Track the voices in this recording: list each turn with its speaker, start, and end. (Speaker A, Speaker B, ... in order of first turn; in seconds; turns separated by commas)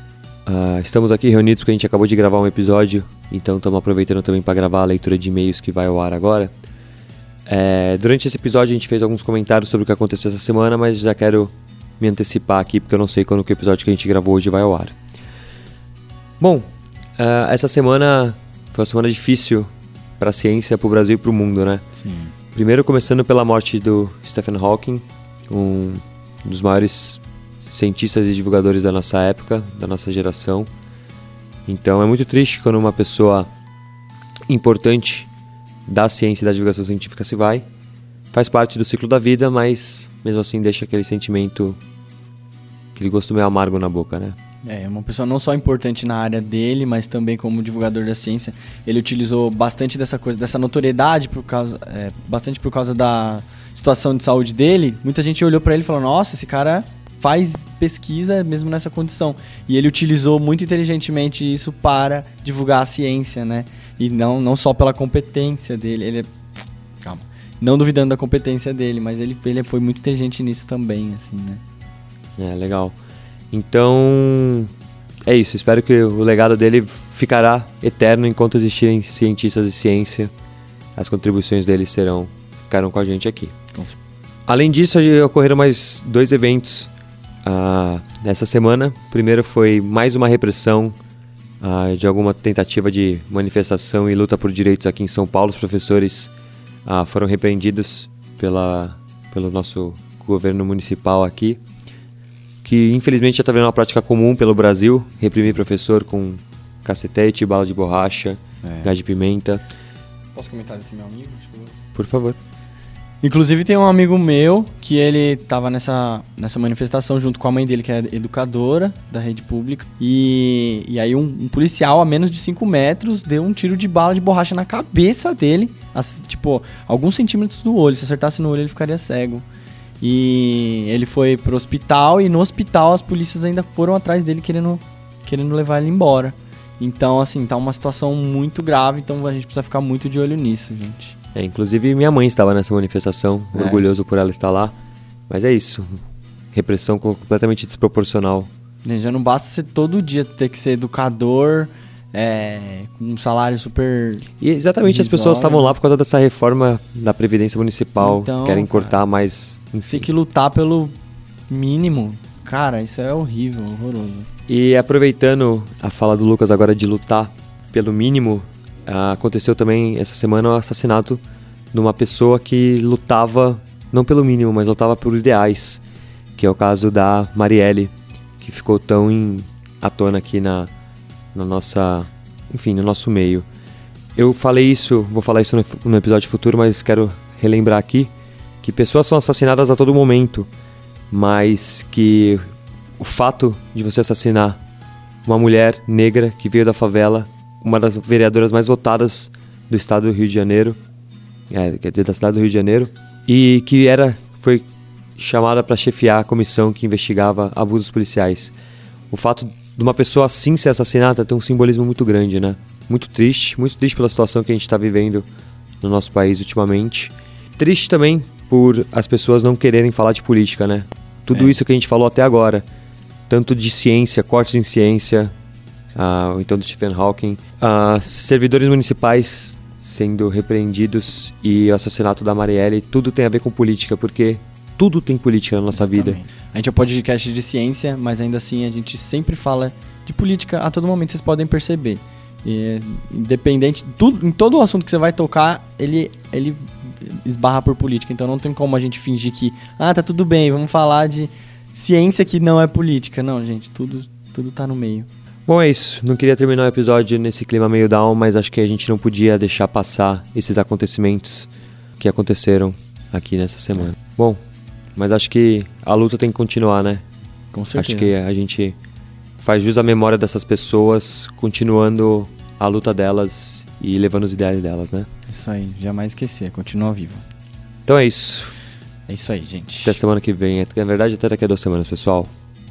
Speaker A: 0.5-6.5, Speaker A: 7.5-14.9, Speaker A: 16.4-16.7, Speaker A: 17.2-21.8, Speaker A: 22.6-30.7, Speaker A: 31.7-33.5, Speaker A: 34.5-35.3, Speaker A: 35.9-37.6, Speaker A: 38.3-41.8, Speaker A: 43.0-44.4, Speaker B: 44.6-66.3, Speaker B: 67.0-71.6, Speaker A: 72.4-73.0, Speaker A: 73.5-74.7, Speaker A: 75.3-80.3, Speaker A: 81.0-83.5, Speaker A: 84.5-86.9, Speaker A: 87.5-91.0, Speaker A: 91.6-96.3, Speaker A: 96.9-101.6, Speaker A: 102.6-109.6, Speaker B: 108.6-108.9, Speaker B: 110.3-111.8, Speaker A: 112.0-112.4, Speaker B: 113.2-129.4, Speaker B: 130.0-141.2, Speaker A: 141.3-144.7, Speaker B: 143.5-143.8, Speaker A: 145.3-146.0, Speaker A: 146.5-148.5, Speaker B: 148.8-154.3, Speaker A: 154.4-160.1, Speaker B: 154.8-155.8, Speaker B: 158.0-159.0, Speaker B: 159.9-160.9, Speaker B: 161.5-164.3, Speaker A: 164.5-171.2, Speaker A: 171.7-175.8, Speaker A: 176.4-180.7, Speaker A: 181.3-183.4, Speaker A: 184.2-188.1, Speaker A: 188.6-190.5, Speaker A: 191.1-192.5, Speaker A: 193.0-194.6, Speaker A: 195.3-200.8, Speaker A: 201.5-204.6, Speaker A: 205.2-208.5, Speaker A: 209.1-215.2, Speaker A: 215.8-222.6, Speaker B: 221.3-221.6, Speaker A: 223.3-225.3, Speaker A: 225.9-236.2, Speaker B: 235.7-255.1, Speaker A: 255.5-261.5, Speaker A: 262.0-264.4, Speaker A: 264.9-267.0, Speaker B: 267.5-268.1, Speaker A: 267.7-268.8, Speaker A: 269.4-275.1, Speaker B: 275.3-277.2, Speaker A: 277.9-278.6, Speaker B: 279.1-280.0, Speaker A: 279.9-282.3